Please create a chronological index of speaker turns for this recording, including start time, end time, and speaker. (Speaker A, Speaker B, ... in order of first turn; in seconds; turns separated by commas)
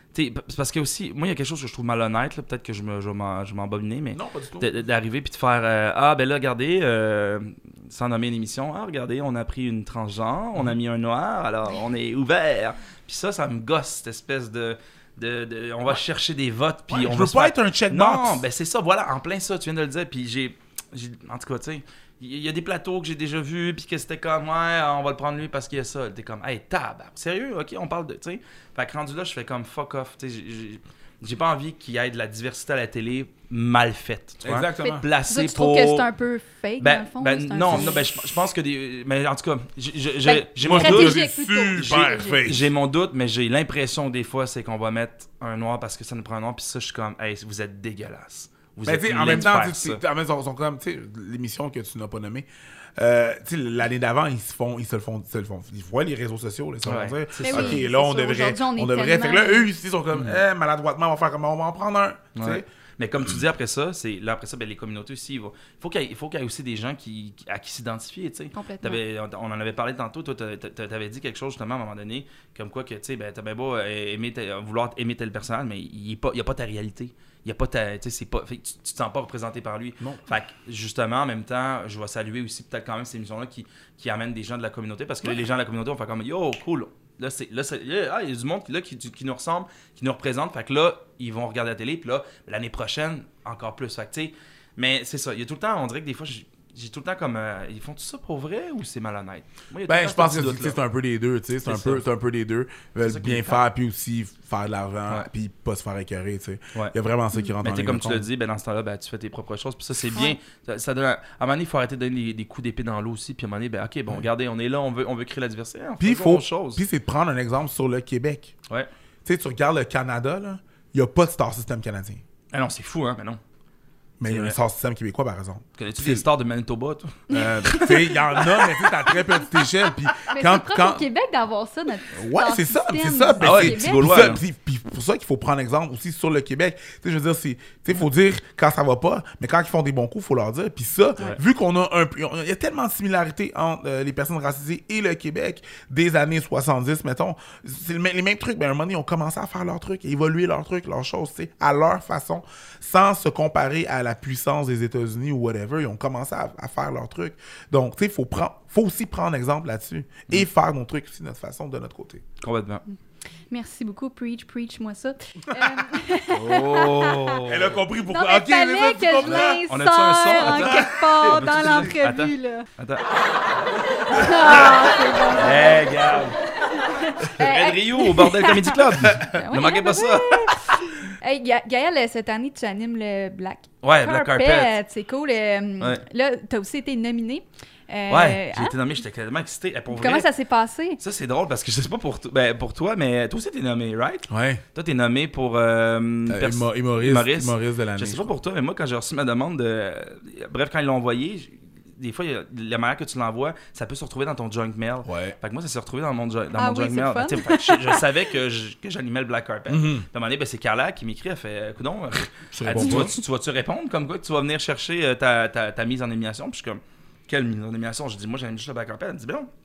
Speaker A: 0.1-36.1, Speaker B: 4.1-4.7, Speaker B: 16.9-18.4, Speaker B: 34.4-35.0, Speaker C: 35.3-38.0, Speaker A: 36.8-50.0, Speaker C: 40.2-42.5, Speaker B: 40.6-42.7, Speaker B: 48.8-62.6, Speaker A: 56.8-57.8, Speaker C: 57.4-59.7, Speaker A: 60.1-60.4, Speaker A: 62.4-100.8, Speaker C: 68.5-69.0, Speaker B: 99.9-108.2, Speaker A: 101.6-102.0, Speaker A: 103.0-103.6, Speaker A: 107.6-116.8, Speaker B: 116.0-118.5, Speaker B: 119.2-122.2, Speaker A: 122.5-123.4, Speaker B: 124.2-126.2, Speaker A: 124.2-124.6, Speaker A: 125.8-128.5, Speaker B: 127.3-131.0, Speaker C: 127.4-128.2, Speaker C: 130.3-134.3, Speaker B: 132.1-162.2, Speaker A: 133.4-134.4, Speaker A: 162.4-162.8, Speaker C: 163.5-167.4, Speaker A: 166.3-167.8, Speaker B: 167.4-169.6, Speaker C: 168.1-172.7, Speaker A: 169.2-173.1, Speaker B: 170.5-171.8, Speaker C: 174.1-175.9, Speaker A: 175.3-176.4, Speaker C: 176.7-188.7, Speaker A: 177.2-180.6, Speaker A: 183.8-184.7, Speaker A: 188.1-190.3, Speaker C: 189.9-191.0, Speaker A: 191.0-219.5, Speaker B: 194.3-194.6, Speaker B: 196.3-198.3, Speaker B: 205.0-205.3, Speaker C: 206.5-208.1, Speaker B: 209.7-210.1, Speaker B: 212.5-213.2